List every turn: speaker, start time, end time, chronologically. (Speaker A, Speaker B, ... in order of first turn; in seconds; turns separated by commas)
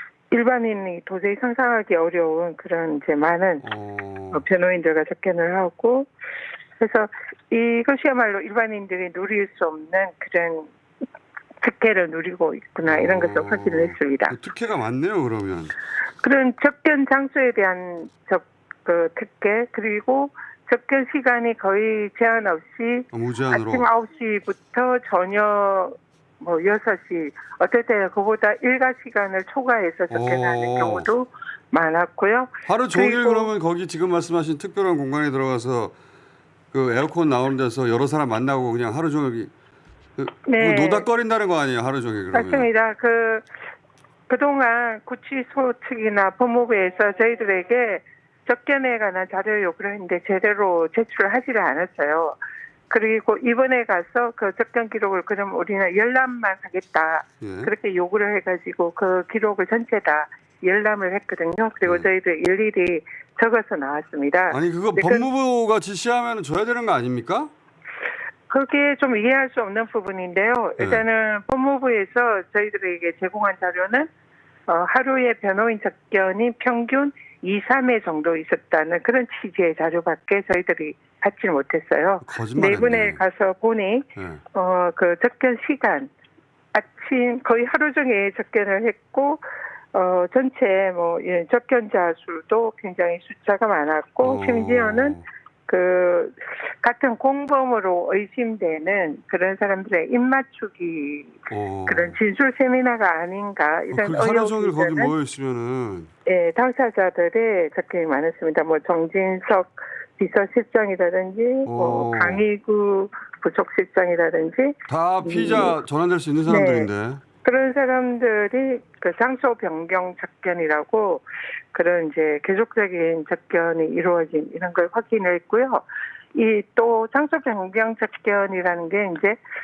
Speaker A: 0.3-3.6, Speaker B: 3.6-4.4, Speaker A: 4.3-6.1, Speaker A: 6.8-10.7, Speaker A: 11.6-14.3, Speaker B: 12.9-15.7, Speaker A: 16.2-33.5, Speaker B: 23.1-23.9, Speaker B: 30.1-31.1, Speaker B: 32.7-36.0, Speaker B: 36.7-39.5, Speaker B: 40.2-42.7, Speaker A: 40.5-41.1, Speaker A: 42.3-43.5, Speaker A: 44.3-52.4, Speaker A: 52.9-65.3, Speaker B: 57.4-57.7, Speaker B: 64.5-67.5, Speaker A: 68.5-74.1, Speaker A: 74.7-86.1, Speaker B: 82.2-83.2, Speaker B: 84.2-84.4, Speaker A: 86.7-105.1, Speaker B: 94.2-95.2, Speaker B: 101.5-102.2, Speaker B: 103.9-106.1, Speaker A: 106.3-115.7, Speaker B: 111.7-112.4, Speaker B: 114.9-117.2, Speaker A: 116.5-116.9, Speaker A: 117.4-129.4